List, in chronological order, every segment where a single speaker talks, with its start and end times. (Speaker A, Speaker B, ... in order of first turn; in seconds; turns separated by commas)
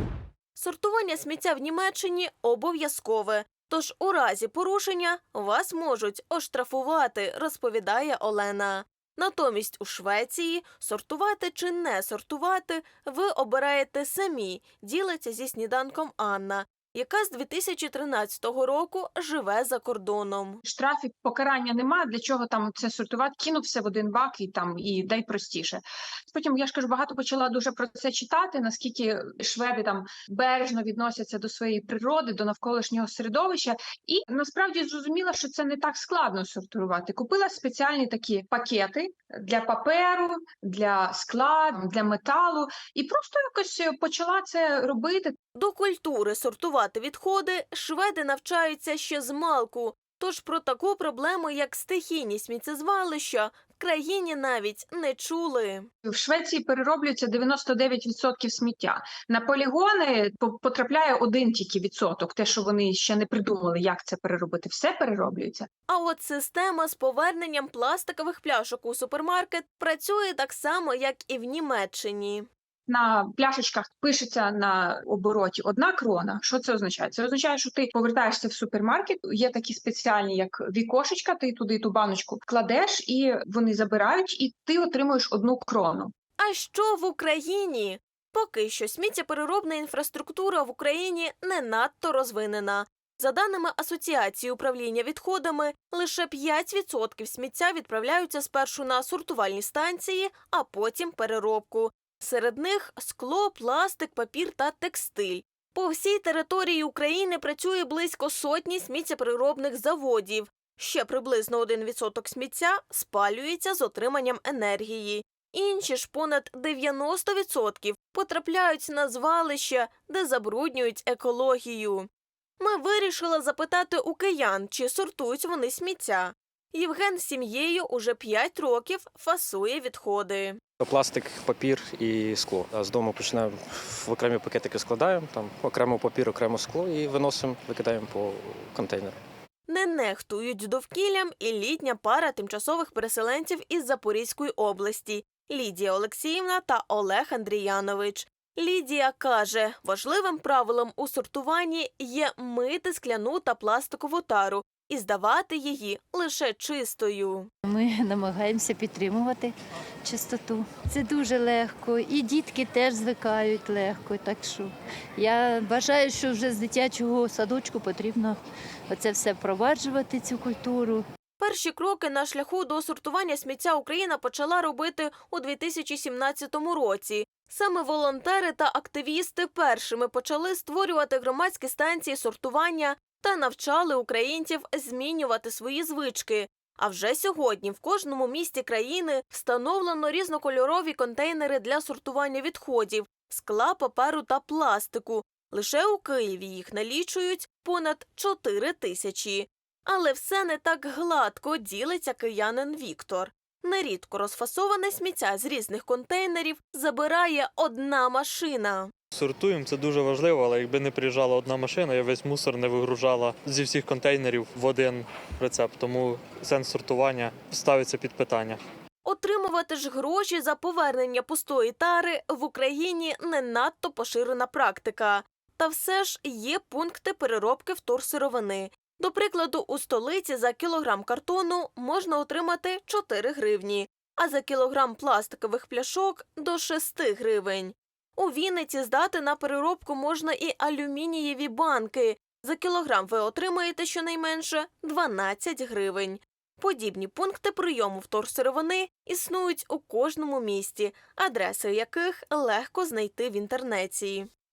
Speaker A: 0.6-20.6, Speaker B: 20.6-45.4, Speaker A: 45.5-55.9, Speaker B: 56.0-65.7, Speaker A: 65.9-72.5, Speaker B: 72.9-86.1, Speaker A: 86.4-130.6, Speaker C: 130.8-139.2, Speaker A: 139.7-157.5, Speaker D: 157.6-171.0, Speaker A: 171.4-208.9, Speaker E: 209.1-218.6, Speaker A: 219.0-254.3